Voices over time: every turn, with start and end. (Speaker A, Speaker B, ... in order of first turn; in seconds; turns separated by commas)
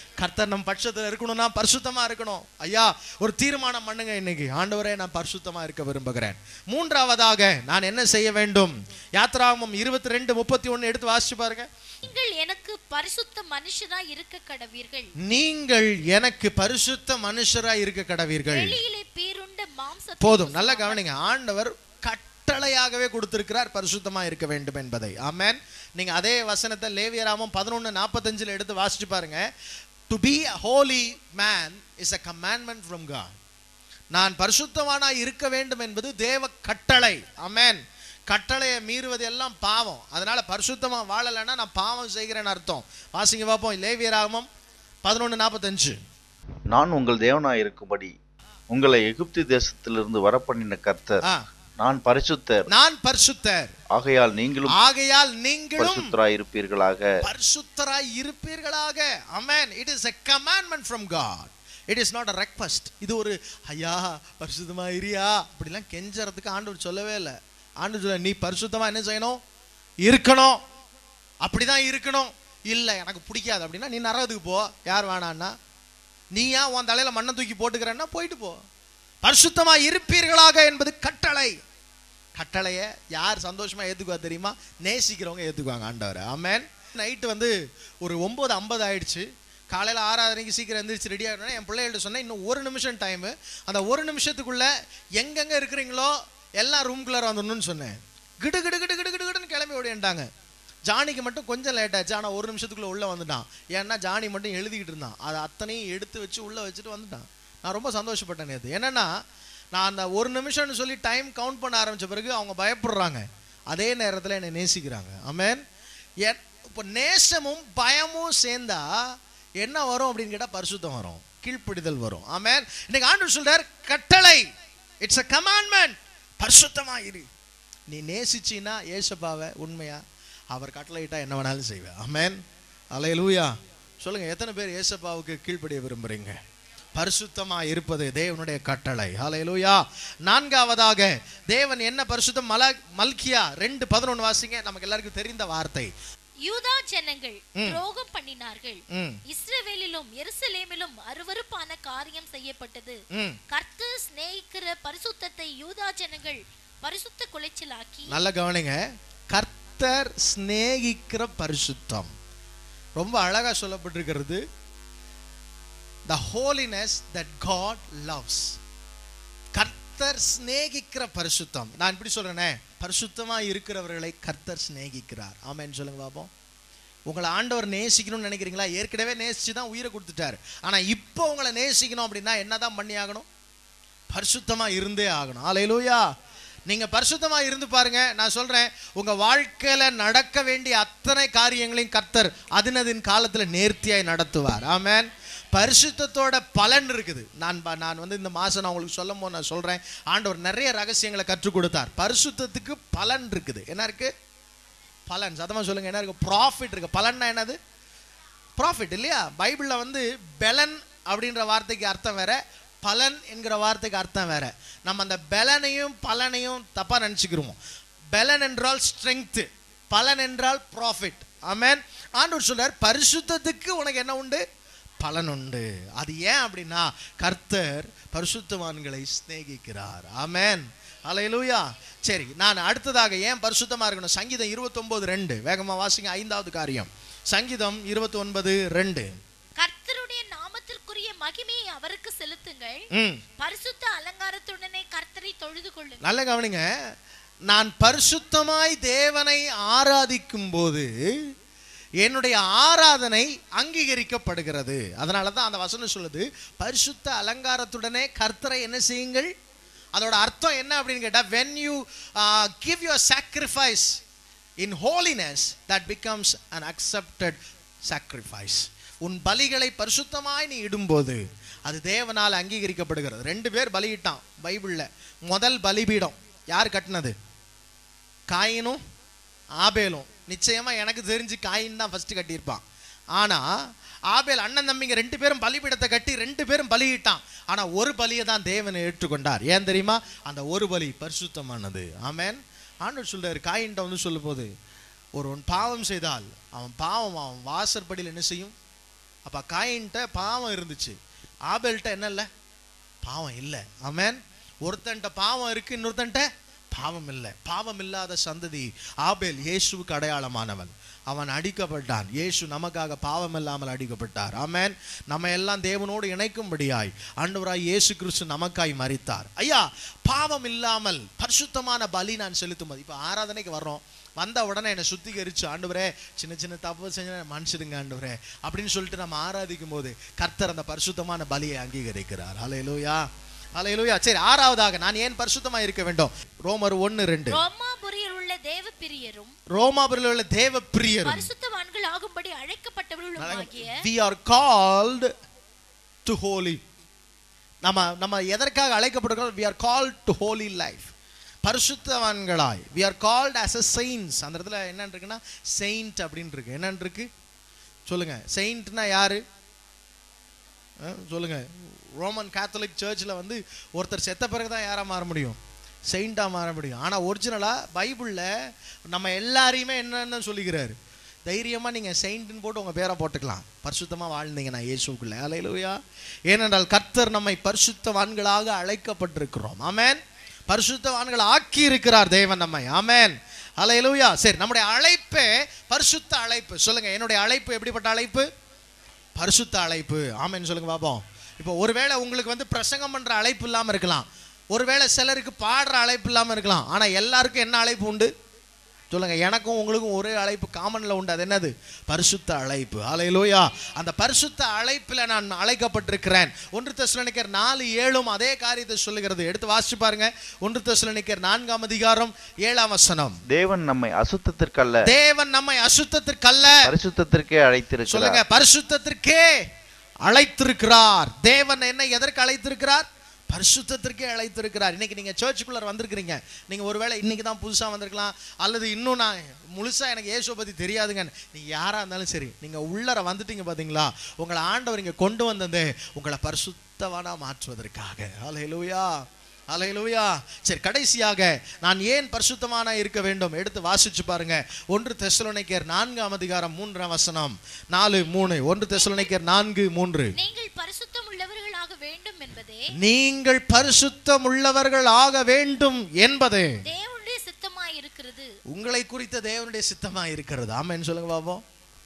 Speaker A: 0.2-11.7, Speaker B: 12.0-15.1, Speaker A: 15.2-18.8, Speaker B: 18.5-21.0, Speaker A: 20.2-29.5, Speaker A: 30.1-33.3, Speaker A: 34.1-44.5, Speaker A: 45.0-46.0, Speaker C: 46.7-48.1, Speaker C: 48.7-51.2, Speaker C: 51.8-52.7, Speaker A: 52.7-53.8, Speaker C: 53.9-54.8, Speaker A: 54.7-56.1, Speaker C: 55.8-57.1, Speaker A: 57.2-69.4, Speaker A: 70.0-70.6, Speaker A: 71.4-75.5, Speaker A: 76.3-78.6, Speaker A: 79.2-81.5, Speaker A: 82.4-100.3, Speaker A: 100.9-109.1, Speaker A: 109.7-115.6, Speaker A: 116.2-118.9, Speaker A: 119.6-124.5, Speaker A: 125.0-127.3, Speaker A: 127.9-132.4, Speaker A: 132.9-136.4, Speaker A: 137.0-145.9, Speaker B: 146.4-158.2, Speaker A: 148.9-149.2, Speaker A: 158.1-162.1, Speaker A: 163.0-164.4, Speaker A: 166.1-168.6, Speaker A: 169.5-176.3, Speaker A: 177.1-183.2, Speaker A: 184.1-186.0, Speaker A: 186.7-204.1, Speaker A: 205.1-207.6, Speaker A: 208.6-217.6, Speaker A: 218.1-224.4, Speaker A: 225.0-239.1, Speaker B: 239.6-242.9, Speaker A: 242.9-243.2, Speaker B: 243.4-246.0, Speaker A: 246.0-246.7, Speaker A: 247.5-250.9, Speaker A: 252.0-259.3, Speaker A: 259.9-264.0, Speaker A: 264.6-277.1, Speaker A: 278.3-278.8, Speaker A: 279.6-282.6, Speaker A: 283.2-283.5, Speaker A: 284.1-294.5, Speaker A: 295.1-298.5, Speaker A: 299.3-301.0, Speaker A: 301.5-302.3, Speaker A: 303.0-333.1, Speaker A: 333.6-337.4, Speaker B: 337.3-339.3, Speaker A: 339.5-341.3, Speaker B: 341.1-343.8, Speaker A: 343.2-345.1, Speaker A: 346.1-346.6, Speaker A: 347.6-350.9, Speaker A: 351.4-357.1, Speaker A: 357.9-359.2, Speaker A: 360.8-365.4, Speaker A: 365.9-368.3, Speaker A: 368.9-370.8, Speaker A: 371.3-388.3, Speaker A: 389.2-398.1, Speaker A: 398.9-413.2, Speaker C: 413.3-414.9, Speaker A: 414.8-416.7, Speaker C: 416.6-418.2, Speaker A: 417.9-419.4, Speaker A: 420.0-438.9, Speaker A: 439.5-450.1, Speaker B: 448.8-449.1, Speaker B: 450.2-452.7, Speaker A: 452.8-456.6, Speaker B: 456.6-458.3, Speaker A: 458.5-461.4